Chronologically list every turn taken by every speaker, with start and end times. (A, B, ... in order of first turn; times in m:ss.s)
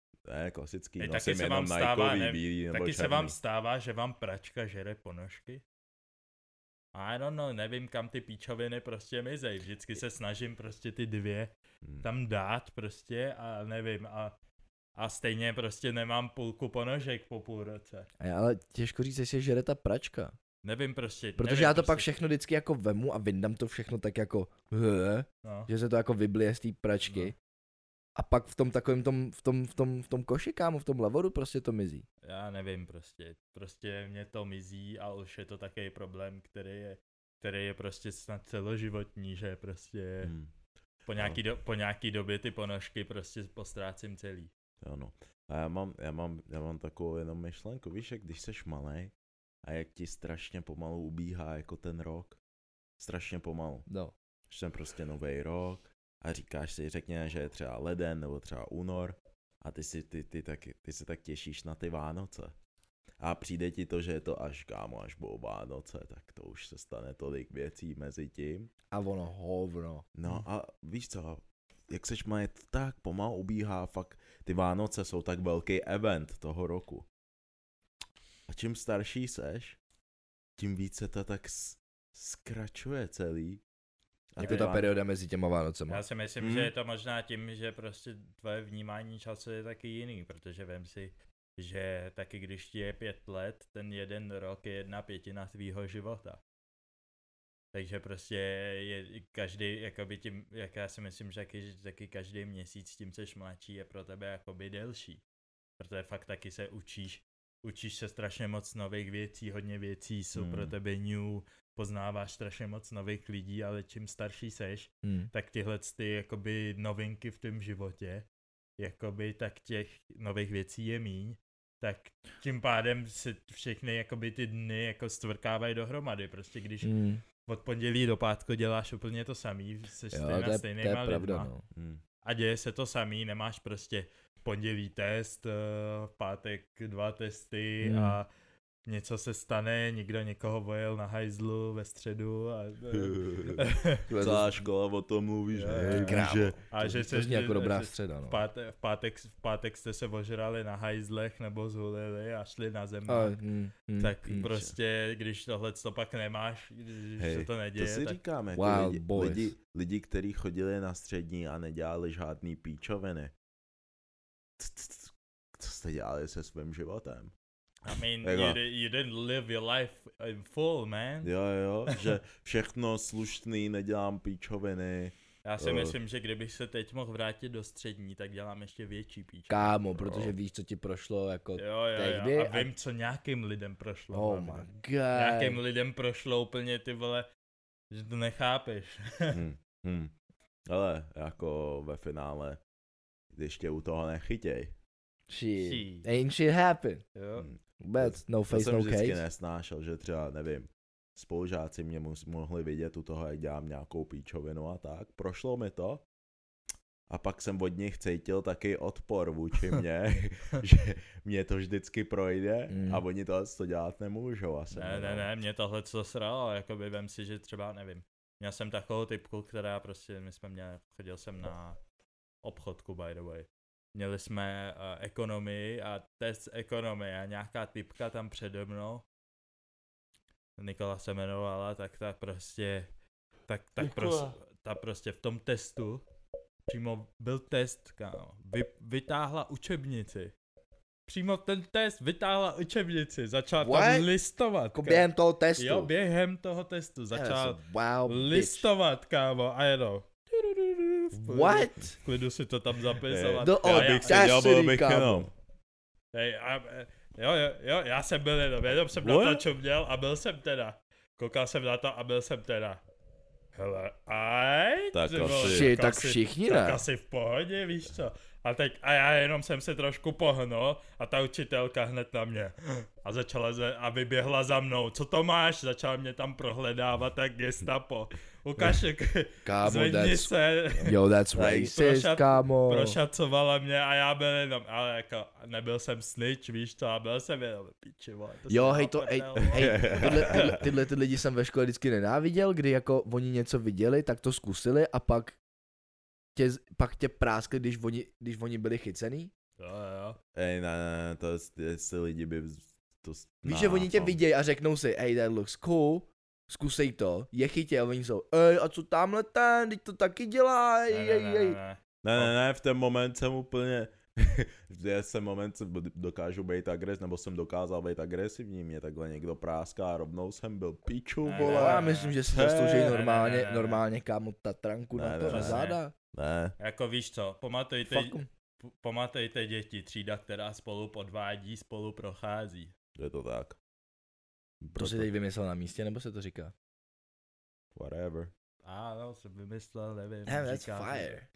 0:00.3-0:03.4 A
0:01.0-0:05.6 B
0:06.9-0:14.3 B
0:15.0-0:18.1 B
0:18.2-0:20.3 C
0:20.6-0:22.1 B
0:21.4-0:27.3 C
0:25.4-0:25.7 B
0:27.1-0:27.3 B
0:28.2-0:32.0 C
0:32.2-0:40.3 B
0:40.2-0:40.5 A
0:41.0-0:44.5 B
0:41.2-0:41.4 A
0:44.8-0:49.1 A
0:49.6-0:52.4 A
0:53.0-0:53.8 A
0:53.9-0:54.1 C
0:54.5-1:02.5 A
1:03.2-1:08.7 A
1:08.9-1:10.1 C
1:10.2-1:17.1 A
1:18.5-1:19.8 A
1:20.6-1:23.6 A
1:24.3-1:24.9 A
1:24.4-1:26.0 C
1:24.4-1:24.7 B
1:25.9-1:36.4 B
1:26.4-1:26.7 A
1:37.7-1:45.2 B
1:45.8-1:58.3 B
1:50.3-1:50.7 A
1:55.0-1:55.3 C
1:58.8-2:11.5 B
2:06.8-2:07.2 C
2:10.1-2:11.6 C
2:11.7-2:12.0 A
2:12.2-2:18.3 B
2:17.8-2:18.2 C
2:18.8-2:24.1 B
2:22.9-2:26.6 A
2:24.1-2:24.6 C
2:25.5-2:33.4 B
2:25.9-2:28.4 C
2:33.1-2:34.5 C
2:34.0-2:38.2 B
2:37.2-2:43.3 A
2:38.5-2:39.5 C
2:44.6-2:47.3 A
2:47.8-2:51.3 B
2:48.2-2:48.6 A
2:51.2-2:56.0 A
2:55.4-3:00.3 B
2:59.5-3:02.7 C
3:01.6-3:07.3 B
3:04.1-3:05.6 C
3:07.9-3:09.4 B
3:09.3-3:10.1 A
3:10.7-3:12.6 A
3:13.3-3:14.7 A
3:15.3-3:17.0 C
3:15.6-3:16.1 B
3:17.1-3:17.5 B
3:17.4-3:26.0 A
3:17.8-3:19.2 C
3:27.1-3:35.3 A
3:32.7-3:33.0 C
3:34.7-3:41.8 B
3:42.4-3:49.0 B
3:50.6-3:52.9 B
3:53.5-3:56.0 B
3:53.9-3:54.2 C
3:56.7-4:00.3 B
4:01.1-4:10.1 B
4:03.6-4:04.1 C
4:04.7-4:05.9 C
4:07.1-4:08.7 C
4:11.1-4:12.0 C
4:11.1-4:14.2 B
4:13.1-4:15.3 A
4:13.4-4:15.3 C
4:16.1-4:22.8 B
4:19.0-4:19.4 A
4:23.5-4:50.6 B
4:24.9-4:25.7 A
4:25.2-4:26.8 C
4:39.4-4:43.0 C
4:41.4-4:41.7 A
4:48.5-4:55.4 C
4:49.5-4:50.6 A
4:56.3-4:59.3 C
4:59.6-5:00.2 B
5:00.3-5:04.2 A
5:03.4-5:11.6 C
5:10.9-5:12.3 B
5:12.0-5:23.0 A
5:21.2-5:22.2 B
5:21.4-5:25.9 C
5:22.8-5:23.8 B
5:25.0-5:26.6 A
5:25.3-5:25.8 B
5:26.6-5:32.7 B
5:27.9-5:28.3 C
5:33.0-5:33.6 A
5:34.6-5:35.1 A
5:34.7-5:36.5 C
5:37.7-5:38.3 A
5:38.6-5:41.1 B
5:40.3-5:41.3 C